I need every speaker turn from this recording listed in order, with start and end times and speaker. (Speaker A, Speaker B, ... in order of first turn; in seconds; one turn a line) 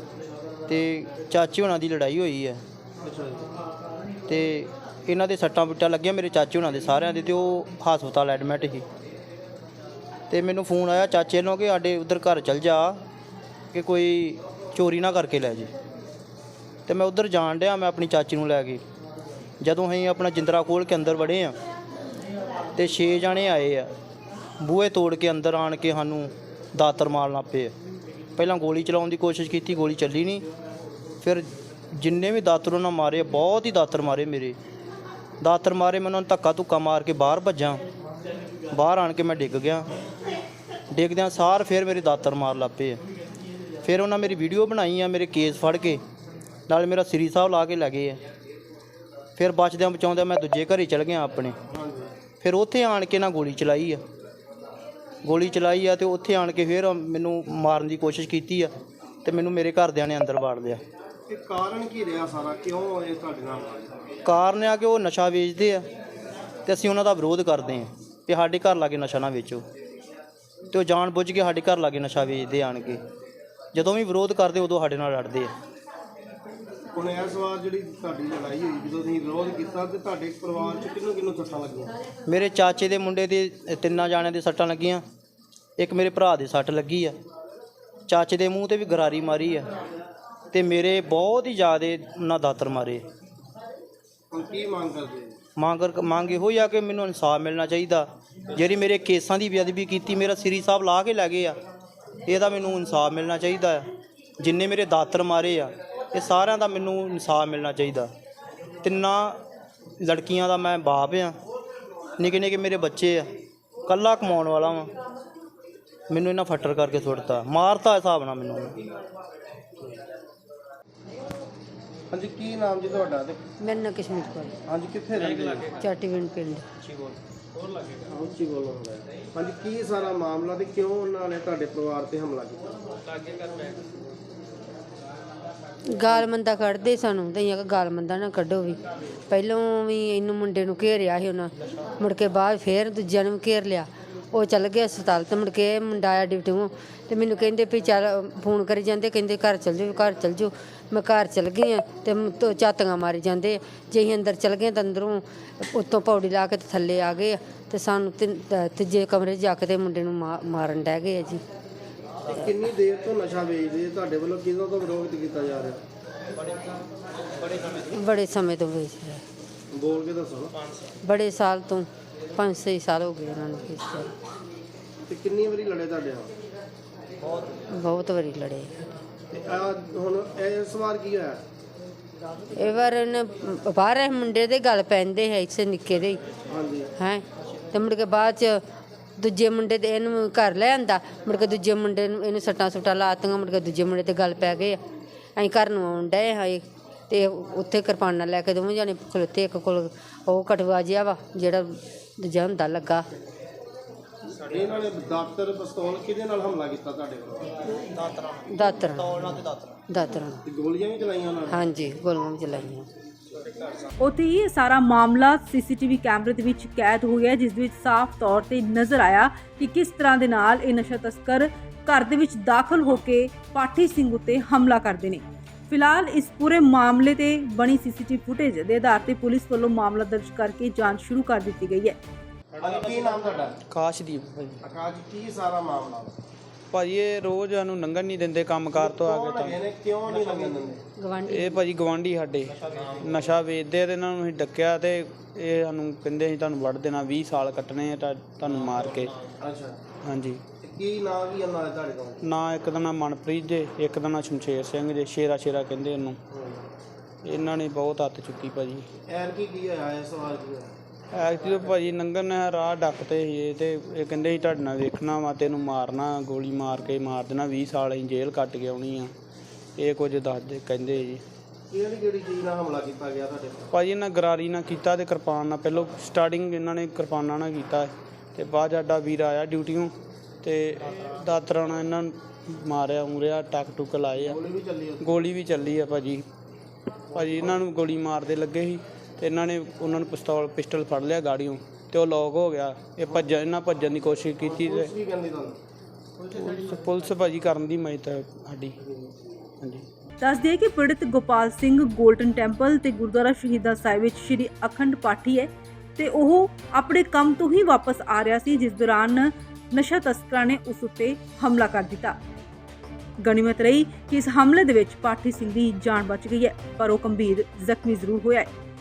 Speaker A: 0.7-2.6
Speaker B: 3.0-3.5
Speaker A: 4.3-8.8
Speaker A: 10.3-13.0
Speaker A: 13.7-15.7
Speaker A: 16.9-18.8
Speaker A: 19.6-21.5
Speaker A: 22.8-23.9
Speaker A: 24.6-27.7
Speaker A: 28.4-30.4
Speaker A: 31.2-34.6
Speaker A: 35.4-37.8
Speaker A: 38.7-39.9
Speaker A: 40.9-43.0
Speaker A: 43.8-46.0
Speaker A: 46.7-48.2
Speaker A: 49.4-51.5
Speaker B: 51.7-52.1
Speaker A: 52.4-54.0
Speaker A: 55.2-58.7
Speaker A: 59.2-60.8
Speaker B: 61.3-64.0
Speaker A: 64.2-65.8
Speaker A: 66.7-69.6
Speaker A: 70.7-73.0
Speaker A: 73.7-75.5
Speaker B: 76.9-81.9
Speaker A: 82.3-85.0
Speaker A: 85.8-87.2
Speaker A: 88.1-89.7
Speaker A: 90.5-93.0
Speaker B: 94.3-95.3
Speaker A: 95.6-101.6
Speaker A: 102.2-103.8
Speaker A: 104.4-108.1
Speaker A: 108.8-109.4
Speaker A: 110.0-111.3
Speaker A: 112.2-113.3
Speaker A: 113.9-114.9
Speaker A: 116.1-118.8
Speaker B: 122.1-123.4
Speaker C: 123.6-124.5
Speaker B: 124.7-125.7
Speaker C: 125.7-126.6
Speaker B: 128.0-132.8
Speaker C: 135.9-161.4
Speaker B: 162.3-165.8
Speaker A: 167.5-167.8
Speaker C: 167.9-169.2
Speaker B: 169.7-170.5
Speaker C: 171.0-174.1
Speaker B: 175.1-176.3
Speaker C: 177.7-178.7
Speaker B: 179.3-181.4
Speaker C: 182.6-186.2
Speaker B: 186.5-186.9
Speaker C: 186.9-188.6
Speaker C: 189.2-194.8
Speaker C: 195.4-203.1
Speaker B: 204.3-207.6
Speaker A: 207.8-209.8
Speaker C: 208.5-210.4
Speaker B: 210.4-211.6
Speaker C: 211.5-212.9
Speaker D: 214.0-232.0
Speaker B: 232.6-233.6
Speaker E: 233.7-234.6
Speaker B: 234.6-236.2
Speaker E: 236.7-239.6
Speaker B: 238.7-240.8
Speaker C: 240.9-241.6
Speaker E: 241.3-249.2
Speaker B: 249.4-249.8
Speaker E: 250.0-250.4
Speaker B: 250.6-252.2
Speaker E: 252.2-256.2
Speaker B: 256.3-256.6
Speaker E: 257.2-258.9
Speaker B: 259.1-260.7
Speaker E: 261.1-269.1
Speaker E: 269.8-271.2
Speaker B: 271.7-273.7
Speaker E: 273.7-284.4
Speaker B: 284.2-285.2
Speaker E: 285.0-286.3
Speaker E: 287.1-294.9
Speaker B: 294.4-295.6
Speaker E: 296.2-298.8
Speaker E: 299.6-299.9
Speaker D: 300.2-312.2
Speaker D: 313.2-318.5